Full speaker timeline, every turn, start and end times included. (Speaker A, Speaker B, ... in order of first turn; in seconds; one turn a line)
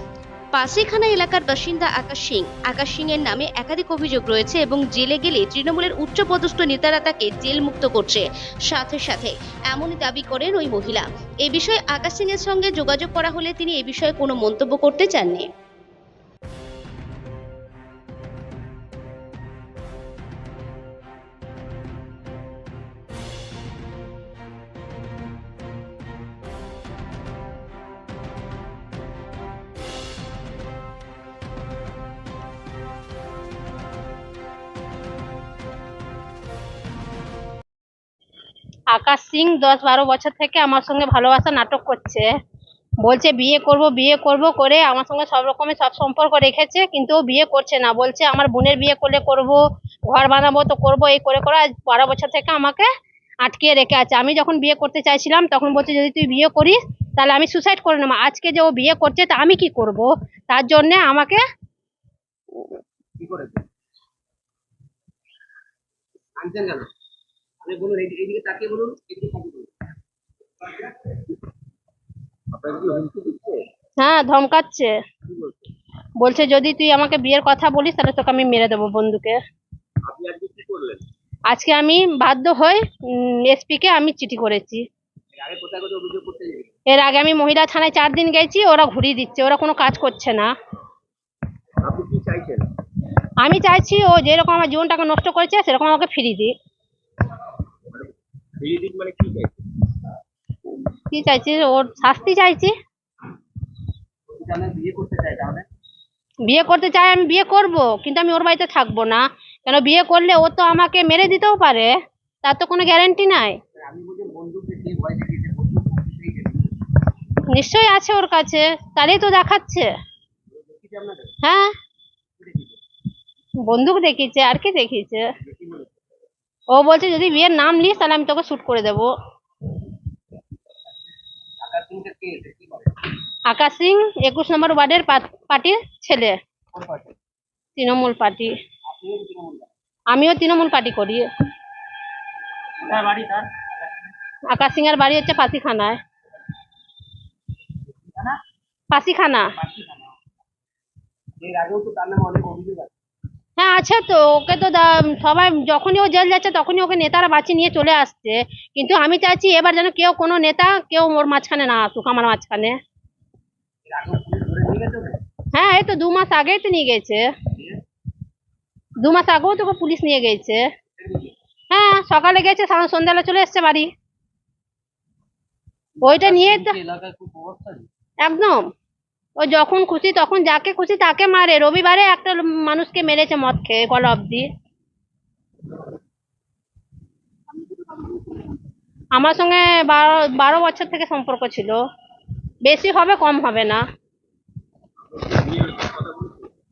Speaker A: 0.6-15.5
Speaker B: 38.9-42.3
Speaker B: 43.0-52.9
Speaker B: 53.4-61.4
Speaker C: 63.2-63.6
Speaker C: 66.4-66.9
Speaker C: 67.6-69.7
Speaker C: 70.7-71.3
Speaker C: 72.5-73.7
Speaker B: 74.0-74.9
Speaker C: 75.3-75.7
Speaker B: 76.2-79.4
Speaker C: 80.1-81.0
Speaker B: 81.5-84.8
Speaker C: 85.4-86.7
Speaker B: 86.9-90.5
Speaker C: 91.8-92.7
Speaker B: 93.4-96.5
Speaker C: 98.6-99.5
Speaker B: 101.1-102.7
Speaker C: 104.3-105.7
Speaker B: 106.4-113.6
Speaker C: 113.8-116.7
Speaker B: 117.5-119.9
Speaker C: 120.5-121.4
Speaker B: 121.4-121.7
Speaker C: 122.4-122.8
Speaker B: 123.6-125.3
Speaker C: 125.4-125.9
Speaker B: 126.7-129.1
Speaker C: 131.6-132.9
Speaker B: 133.5-136.4
Speaker C: 136.7-137.1
Speaker B: 137.8-138.5
Speaker C: 138.9-139.7
Speaker B: 140.1-141.3
Speaker C: 142.8-143.8
Speaker B: 144.5-146.0
Speaker C: 148.1-148.4
Speaker B: 148.9-149.5
Speaker C: 149.6-150.2
Speaker C: 151.4-152.9
Speaker B: 153.6-162.8
Speaker C: 163.9-165.2
Speaker B: 165.5-167.3
Speaker B: 169.0-170.7
Speaker C: 171.0-171.3
Speaker B: 171.7-173.9
Speaker B: 176.0-176.8
Speaker C: 176.0-177.9
Speaker B: 178.2-178.7
Speaker B: 179.4-184.5
Speaker B: 189.1-191.8
Speaker B: 192.6-193.8
Speaker C: 195.2-196.5